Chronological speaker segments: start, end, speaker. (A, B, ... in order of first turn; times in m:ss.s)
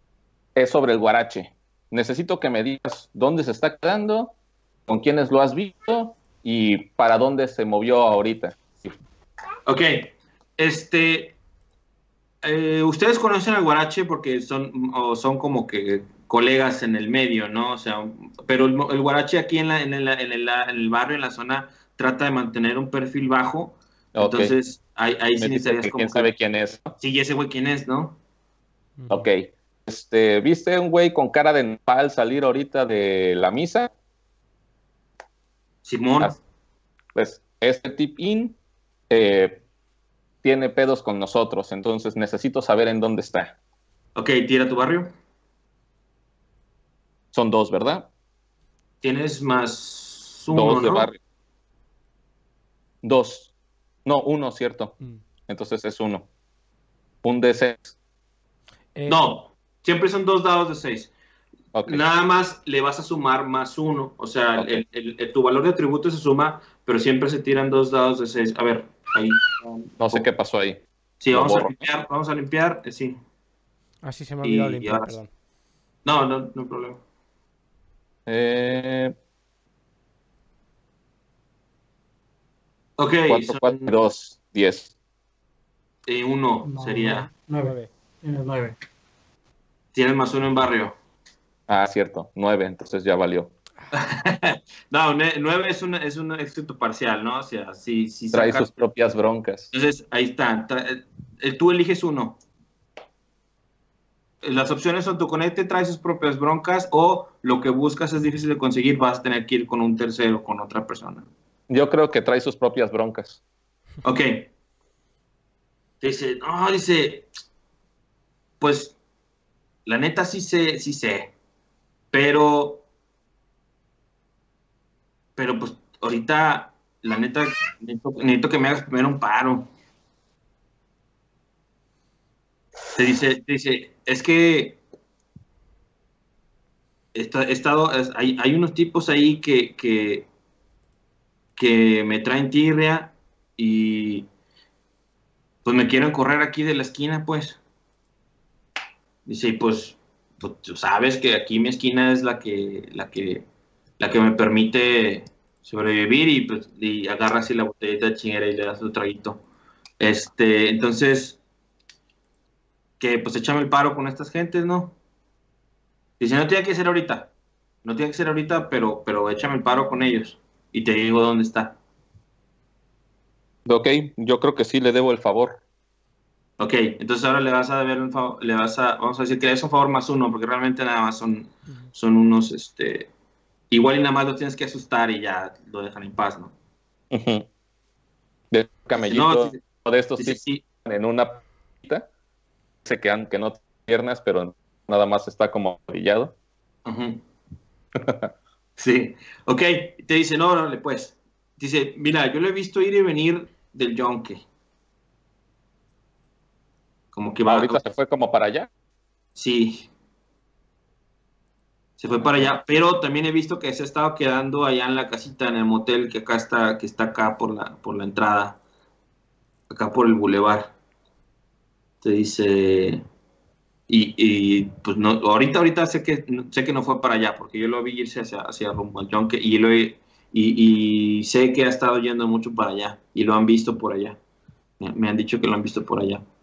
0:00.5-0:04.3 A
0:04.9-0:08.9 A
0:09.6-0:11.4 B
0:12.4-0:26.3 B
0:24.1-0:24.5 A
0:25.4-0:27.0 A
0:27.0-0:28.2 B
0:29.0-0:29.2 C
0:29.1-0:33.9 A
0:35.8-0:36.4 B
0:37.1-0:38.6 A
0:39.1-0:39.6 A
0:40.4-0:43.6 A
0:44.2-0:45.1 B
0:47.3-0:48.1 A
0:49.0-0:51.1 B
0:50.5-0:51.2 A
0:53.0-0:53.5 A
0:54.0-0:55.0 A
0:55.5-0:56.3 A
0:57.2-0:57.9 A
0:58.9-0:59.2 C
0:59.1-1:01.1 B
1:01.7-1:02.0 A
1:01.8-1:10.2 B
1:10.0-1:11.8 A
1:11.2-1:13.2 B
1:14.0-1:15.3 C
1:14.4-1:15.1 B
1:16.0-1:17.0 B
1:18.3-1:19.1 A
1:23.0-1:23.9 B
1:23.3-1:24.9 A
1:26.1-1:27.3 B
1:26.6-1:28.8 D
1:27.6-1:27.9 C
1:29.9-1:30.9 B
1:31.7-1:33.5 A
1:33.9-1:38.7 B
1:38.3-1:39.7 A
1:39.7-1:42.4 B
1:44.4-1:51.3 B
1:51.7-1:53.4 A
1:54.0-1:54.5 B
1:56.0-1:57.3 B
1:58.6-1:58.9 B
1:59.8-2:01.3 B
2:02.1-2:02.8 B
2:05.4-2:09.7 B
2:12.9-2:14.8 B
2:17.1-2:20.3 B
2:21.6-2:24.3 B
2:25.6-2:27.6 B
2:29.2-2:33.4 B
2:34.0-2:39.4 B
2:40.0-2:41.4 B
2:43.0-2:44.9 B
2:46.2-2:47.3 B
2:47.8-2:51.8 B
2:53.6-2:55.6 A
2:56.6-3:03.1 B
3:03.7-3:06.5 B
3:07.1-3:07.5 A
3:08.5-3:12.1 A
3:08.9-3:09.6 B
3:10.2-3:10.6 B
3:12.8-3:16.3 A
3:16.8-3:17.2 B
3:18.0-3:18.3 A
3:18.8-3:24.4 B
3:27.1-3:27.8 B
3:27.4-3:28.7 A
3:29.4-3:29.9 B
3:32.0-3:38.6 B
3:39.7-3:40.7 B
3:42.0-3:43.0 B
3:43.9-3:54.2 B
3:54.8-3:56.2 B